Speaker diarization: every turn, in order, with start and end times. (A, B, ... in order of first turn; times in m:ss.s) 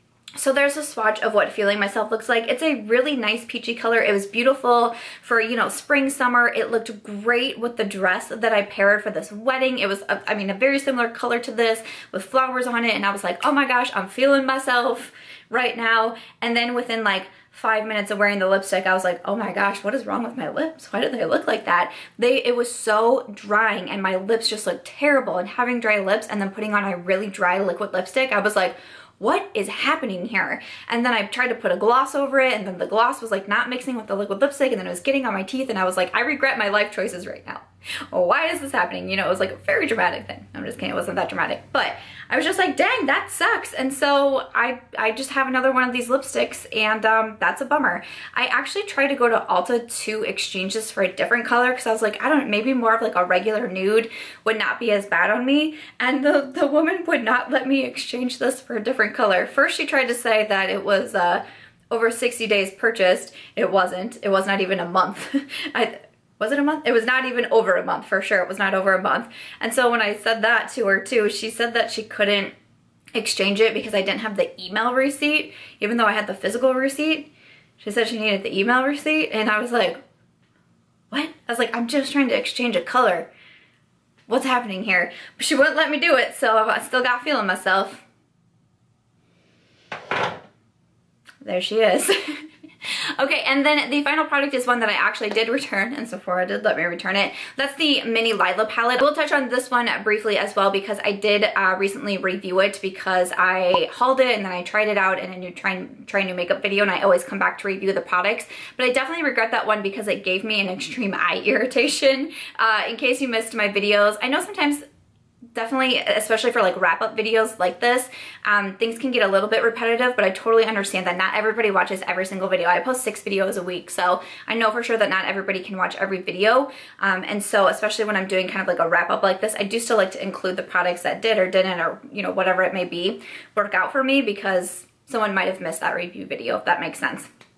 0:00.4-1:12.5 A
1:13.2-1:20.0 A
1:21.1-1:23.3 A
1:24.3-1:28.0 A
1:31.4-1:54.8 A
1:55.5-2:17.3 A